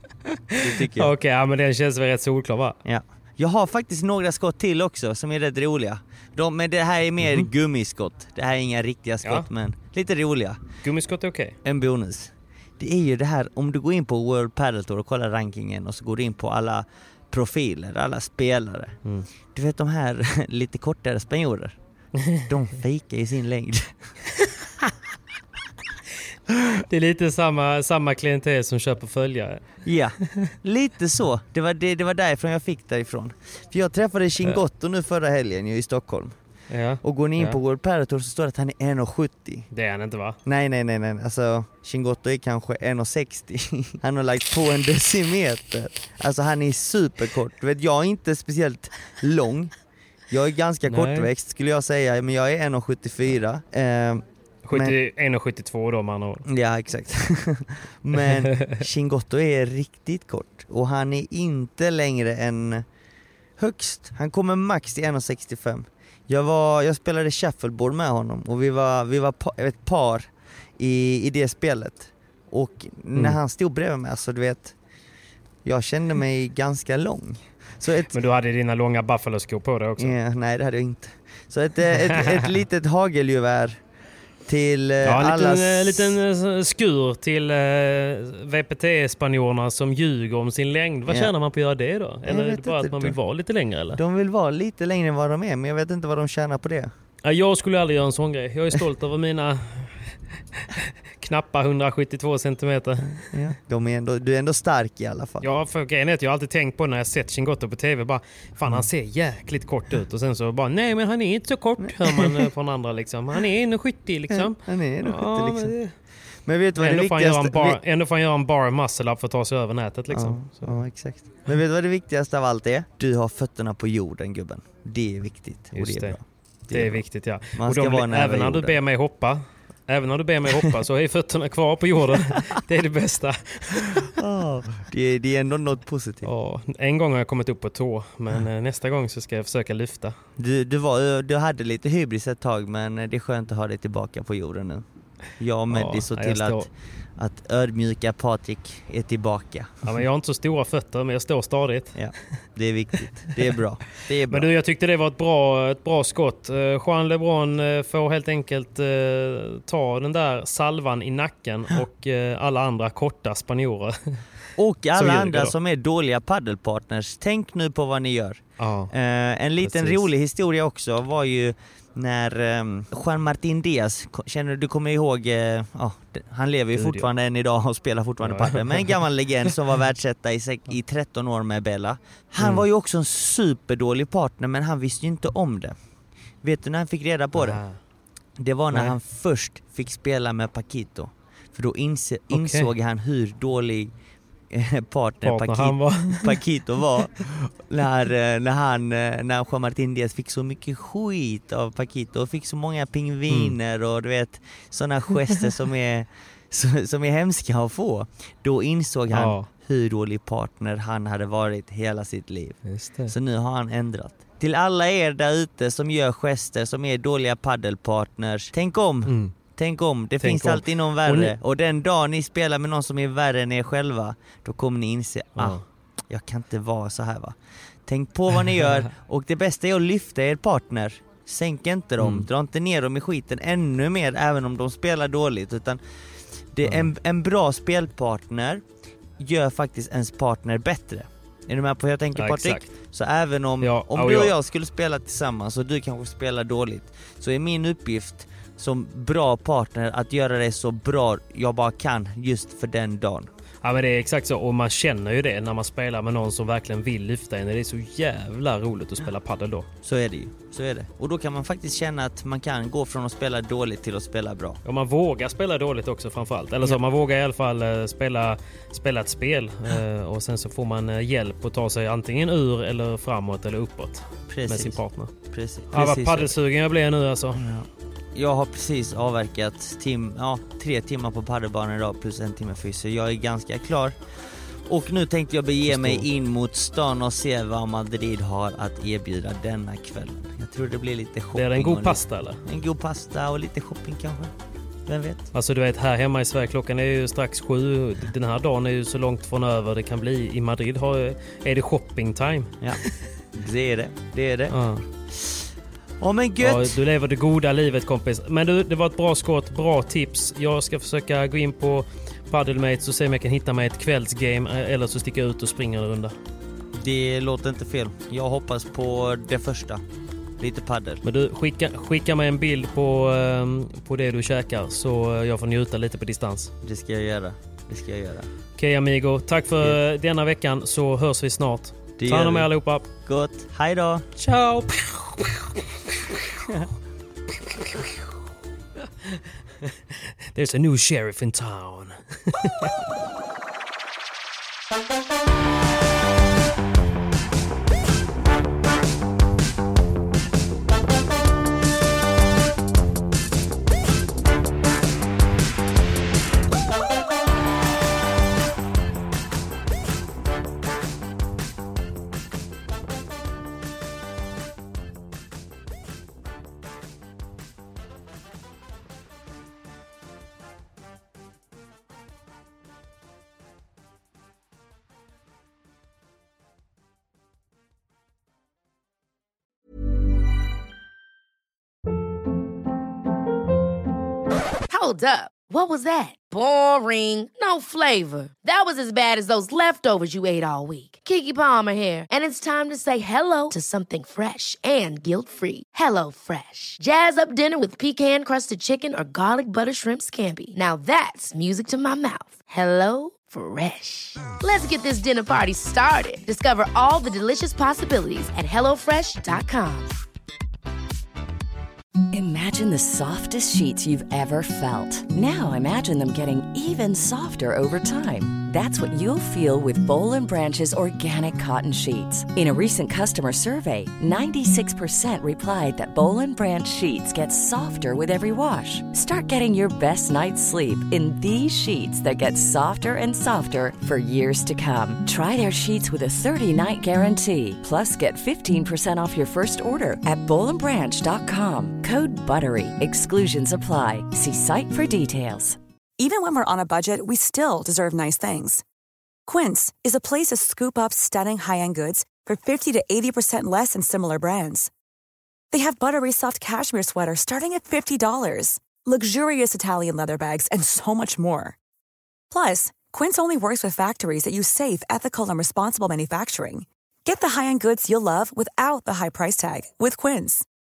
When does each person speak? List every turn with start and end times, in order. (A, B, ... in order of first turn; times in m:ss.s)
0:00.5-0:02.8 A
0:00.6-0:01.1 B
0:02.8-0:10.6 B
0:07.2-0:07.5 A
0:09.2-0:09.5 A
0:10.8-0:11.6 A
0:11.6-0:21.8 B
0:22.3-0:24.1 B
0:26.9-0:29.6 A
0:29.8-0:36.4 B
0:36.7-0:37.6 A
0:37.0-0:39.7 B
0:39.7-0:40.4 A
0:40.4-0:49.7 B
0:50.3-0:55.0 B
0:50.9-0:51.3 A
0:54.6-0:56.4 A
0:56.4-1:02.9 B
1:03.6-1:14.8 B
1:15.6-1:18.1 B
1:18.1-1:20.2 A
1:20.0-1:23.8 B
1:22.0-1:22.5 A
1:24.5-1:26.1 B
1:25.0-1:34.0 A
1:31.1-1:31.3 B
1:32.2-1:33.2 B
1:33.9-1:36.9 B
1:37.2-1:43.3 A
1:43.0-1:45.5 B
1:45.4-1:55.9 A
1:51.8-1:52.5 B
1:54.3-1:55.8 B
1:56.4-1:57.8 B
1:56.8-2:00.8 A
2:00.1-2:08.8 B
2:05.7-2:06.2 A
2:06.7-2:14.1 A
2:14.2-2:16.3 B
2:16.2-2:20.2 A
2:20.4-2:24.8 B
2:25.4-2:29.9 B
2:25.7-2:26.7 A
2:29.8-2:32.0 A
2:32.0-2:34.5 B
2:34.3-2:44.2 A
2:44.6-3:05.8 B
2:44.9-2:45.6 A
2:48.6-2:48.9 A
2:49.6-2:50.0 A
2:56.8-2:57.1 A
2:58.2-2:59.0 A
3:02.4-3:02.7 A
3:06.4-3:07.6 B
3:07.4-3:07.8 A
3:08.4-3:13.9 B
3:12.3-3:12.7 A
3:14.5-3:55.8 B
3:15.2-3:16.4 A
3:23.3-3:23.6 A
3:29.1-3:29.5 A
3:32.7-3:33.1 A
3:39.1-3:39.3 A
3:40.2-3:41.4 A
3:45.4-3:45.6 A
3:52.0-3:52.3 A
3:56.5-3:58.6 B
3:56.6-3:56.9 A
3:59.2-4:13.3 B
4:02.2-4:02.7 A
4:03.6-4:04.4 A
4:13.6-4:19.7 A
4:19.8-4:24.6 B
4:24.6-4:35.1 A
4:34.3-4:36.3 B
4:35.7-4:37.4 A
4:37.4-4:44.0 B
4:44.7-4:54.3 B
4:45.7-4:46.1 A
4:51.4-4:52.4 A
4:54.9-4:55.3 B
4:55.3-5:02.6 A
5:03.3-5:04.6 B
5:04.5-5:04.8 A
5:05.1-5:05.5 B
5:06.0-5:06.8 B
5:06.4-5:16.2 A
5:16.7-5:19.8 B
5:20.4-5:21.0 B
5:21.0-5:26.5 A
5:26.6-5:28.3 B
5:28.6-5:32.8 A
5:32.0-5:34.1 B
5:34.2-5:35.6 A
5:37.4-5:38.0 A
5:39.1-5:42.7 A
6:24.7-6:49.9 C
6:52.1-7:25.6 D
7:26.0-7:28.6 E
7:29.3-7:34.7 E
7:35.5-7:41.6 E
7:42.3-7:50.4 E